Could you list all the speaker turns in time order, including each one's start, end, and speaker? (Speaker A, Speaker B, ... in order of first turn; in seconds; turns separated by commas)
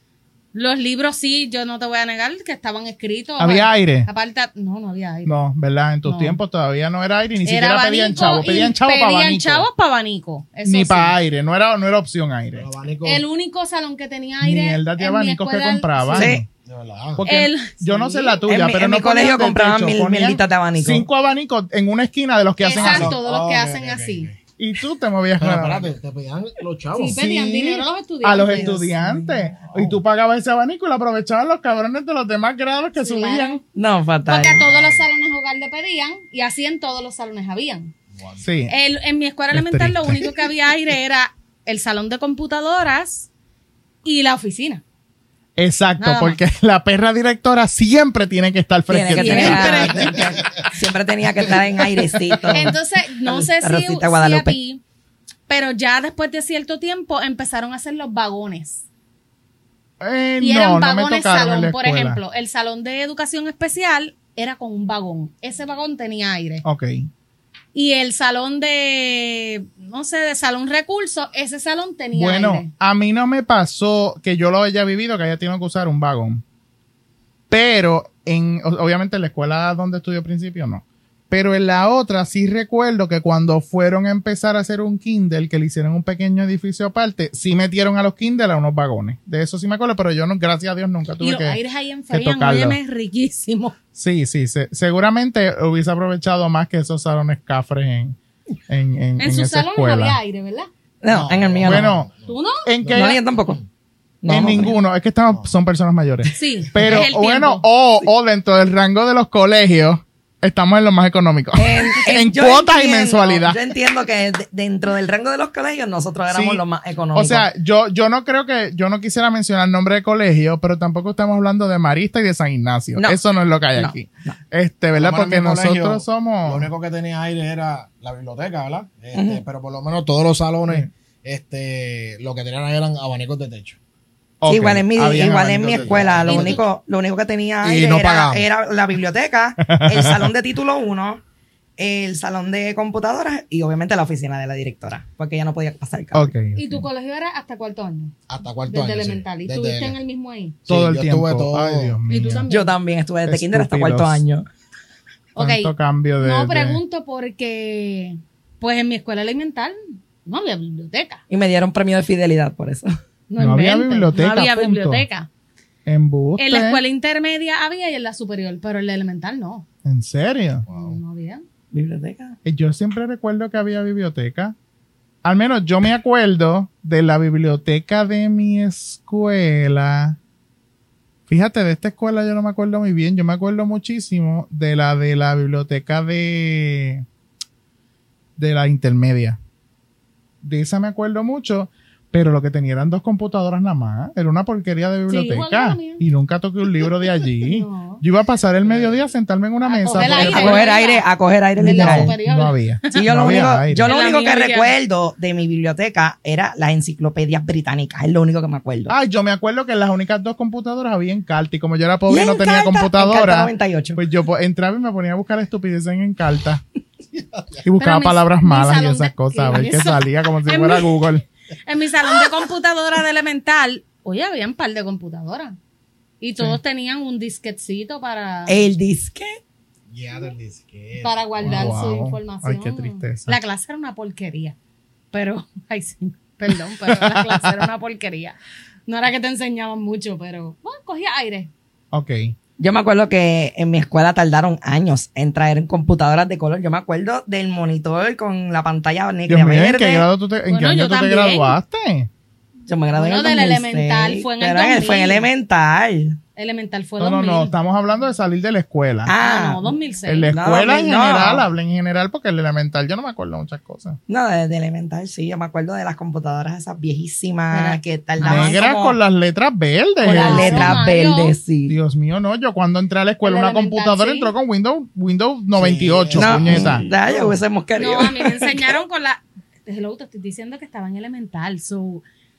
Speaker A: 0.5-5.3, Speaker B: 3.4-4.1, Speaker B: 5.2-9.7, Speaker A: 6.0-6.4, Speaker A: 7.4-11.1, Speaker B: 10.7-12.7, Speaker C: 12.6-13.2, Speaker A: 13.0-16.3, Speaker B: 14.4-16.5, Speaker D: 16.1-16.4, Speaker C: 16.6-17.2, Speaker B: 17.2-23.2, Speaker A: 17.2-18.4, Speaker D: 18.5-21.1, Speaker A: 22.6-24.3, Speaker C: 22.8-24.4, Speaker B: 24.6-25.9, Speaker C: 25.4-27.2, Speaker A: 26.9-28.9, Speaker B: 27.2-33.6, Speaker D: 28.3-29.4, Speaker C: 29.6-30.0, Speaker A: 33.0-33.6, Speaker D: 33.8-34.7, Speaker A: 34.3-37.9, Speaker C: 34.5-35.0, Speaker C: 38.1-38.4, Speaker B: 38.4-38.7, Speaker A: 38.7-43.3, Speaker B: 39.5-40.3, Speaker A: 44.0-44.8, Speaker B: 45.6-50.7, Speaker A: 46.0-46.4, Speaker D: 48.9-52.8, Speaker A: 49.1-50.3, Speaker C: 49.9-50.4, Speaker B: 52.2-52.7, Speaker A: 52.5-54.8, Speaker D: 53.3-54.5, Speaker A: 55.5-58.8, Speaker B: 60.0-62.2, Speaker A: 60.4-66.6, Speaker B: 66.6-67.1, Speaker A: 67.7-72.7, Speaker B: 72.1-76.4, Speaker B: 77.5-91.6, Speaker A: 91.2-93.8, Speaker B: 92.1-92.8, Speaker B: 93.9-100.2, Speaker A: 99.2-100.7, Speaker D: 101.0-101.9, Speaker C: 101.1-102.3, Speaker B: 101.6-102.1, Speaker A: 102.3-102.7, Speaker B: 102.6-103.2, Speaker C: 102.8-103.7, Speaker D: 102.9-103.6, Speaker D: 104.2-104.8, Speaker B: 104.3-113.6, Speaker A: 106.3-107.6, Speaker D: 111.6-117.5, Speaker B: 116.3-116.6, Speaker B: 117.1-126.7, Speaker D: 123.8-124.4, Speaker C: 124.9-133.8, Speaker D: 129.1-129.4, Speaker B: 134.4-136.6, Speaker D: 134.5-141.2, Speaker C: 135.7-136.6, Speaker C: 137.6-138.4, Speaker B: 139.6-140.3, Speaker D: 141.8-146.3, Speaker B: 146.1-146.9, Speaker A: 146.6-148.1, Speaker C: 148.3-150.0, Speaker A: 148.7-150.6, Speaker C: 150.7-151.9, Speaker B: 150.7-152.5, Speaker A: 152.1-152.8, Speaker D: 152.5-154.4, Speaker B: 153.2-154.2, Speaker A: 155.3-161.2, Speaker B: 155.4-156.8, Speaker D: 161.3-162.9, Speaker A: 163.3-165.3, Speaker B: 163.4-165.0, Speaker B: 165.9-166.8, Speaker A: 166.4-169.6, Speaker B: 169.8-170.6, Speaker C: 170.7-171.0, Speaker A: 170.7-171.4, Speaker D: 171.7-172.4, Speaker B: 172.4-174.5, Speaker B: 175.2-180.2, Speaker B: 181.3-187.0, Speaker B: 188.4-189.4, Speaker B: 190.4-200.7, Speaker A: 195.1-196.0, Speaker A: 197.4-198.0, Speaker C: 198.6-199.0, Speaker A: 199.6-203.1, Speaker D: 199.9-202.1, Speaker B: 201.6-203.9, Speaker D: 202.9-208.9, Speaker A: 203.8-204.7, Speaker B: 208.9-216.6, Speaker D: 212.1-214.0, Speaker C: 217.1-217.6, Speaker B: 217.6-221.2, Speaker A: 217.8-221.1, Speaker A: 221.6-225.6, Speaker A: 226.2-228.7, Speaker D: 228.5-229.4, Speaker C: 229.9-231.8, Speaker A: 231.0-234.6, Speaker B: 231.4-233.4, Speaker A: 235.1-241.5, Speaker B: 236.9-237.5, Speaker B: 241.9-242.3, Speaker D: 242.6-250.1, Speaker B: 249.3-252.1, Speaker A: 250.5-251.6, Speaker D: 252.7-256.2, Speaker A: 252.9-255.2, Speaker A: 256.4-257.5, Speaker B: 257.0-259.1, Speaker D: 259.1-259.7, Speaker A: 259.2-260.3, Speaker B: 260.1-264.0, Speaker D: 260.3-261.4, Speaker D: 264.1-269.0, Speaker A: 267.5-268.6, Speaker B: 268.2-270.8, Speaker D: 270.0-271.8, Speaker A: 270.1-271.4, Speaker B: 271.7-276.9, Speaker A: 273.2-274.3, Speaker C: 275.5-277.4, Speaker D: 276.1-278.6, Speaker A: 277.8-282.0